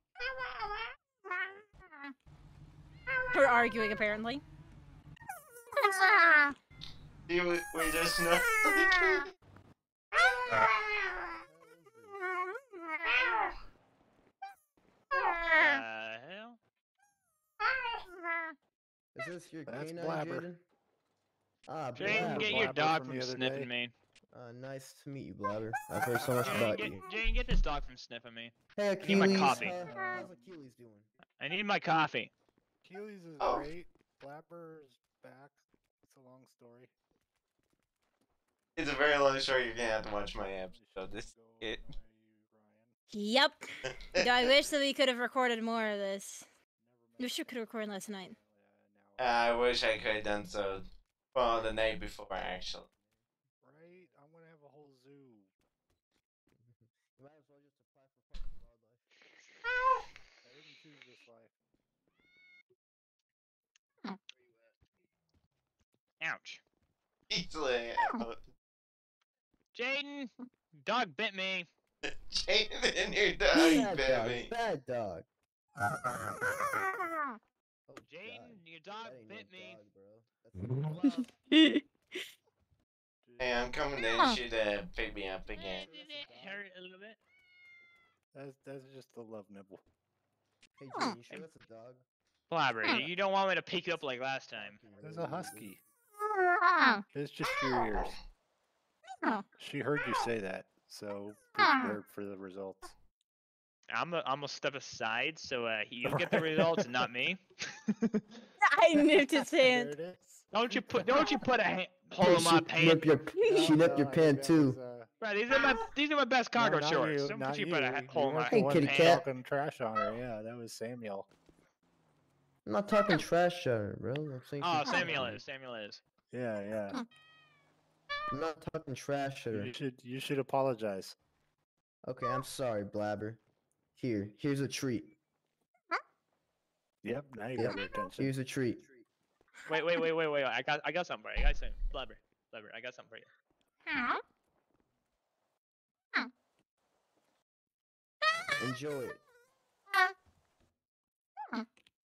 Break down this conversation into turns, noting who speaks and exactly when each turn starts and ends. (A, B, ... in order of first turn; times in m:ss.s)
0:00.3-0:00.8 A
0:03.3-0:04.4 B
0:05.8-0:06.6 B
0:07.3-0:09.3 A
0:10.2-0:11.2 A
0:11.2-0:12.3 C
0:15.6-0:16.6 D
0:19.2-0:20.6 C
0:19.7-0:20.5 E
0:21.7-0:22.8 C
0:22.0-0:23.9 D
0:22.0-0:23.7 E
0:24.3-0:27.1 C
0:26.4-0:29.8 D
0:28.8-0:31.1 C
0:29.1-0:30.6 E
0:31.3-0:32.3 D
0:32.8-0:36.9 E
0:33.4-0:33.7 A
0:38.8-0:41.9 A
0:40.7-0:43.0 E
0:43.1-0:43.6 B
0:43.9-0:44.3 A
0:44.2-0:46.5 B
0:46.8-0:49.4 E
0:47.2-0:48.4 B
0:49.2-0:52.9 A
0:53.0-0:54.2 C
0:53.6-0:55.5 E
0:56.6-0:59.6 C
1:00.4-1:01.5 E
1:06.2-1:06.6 D
1:07.3-1:08.4 A
1:09.7-1:11.7 D
1:12.0-1:14.5 A
1:13.5-1:15.3 C
1:17.9-1:21.4 C
1:18.0-1:19.8 D
1:21.5-1:21.8 B
1:23.2-1:23.8 E
1:23.4-1:25.9 A
1:25.5-1:26.7 C
1:25.6-1:27.2 D
1:28.3-1:29.8 E
1:30.8-1:32.0 C
1:32.5-1:34.8 D
1:34.5-1:35.8 C
1:35.0-1:35.8 E
1:36.6-1:37.0 B
1:37.1-1:38.2 E
1:39.6-1:42.9 E
1:41.6-1:41.9 B
1:43.9-1:48.2 D
1:46.0-1:46.9 E
1:48.6-1:49.9 B
1:49.4-1:50.5 E
1:50.5-1:53.1 D
1:52.2-1:54.8 C
1:53.4-1:53.8 B
1:53.4-1:55.1 E
1:55.2-1:59.2 D
1:56.6-2:01.3 E
1:58.5-1:59.2 C
2:02.6-2:05.4 C
2:04.6-2:06.0 D
2:05.0-2:05.3 E
2:06.3-2:07.0 E
2:08.3-2:09.7 C
2:09.5-2:11.2 E
2:12.1-2:13.4 C
2:14.0-2:15.2 C
2:17.0-2:18.3 E
2:17.6-2:19.0 C
2:19.7-2:23.3 D
2:28.6-2:29.2 C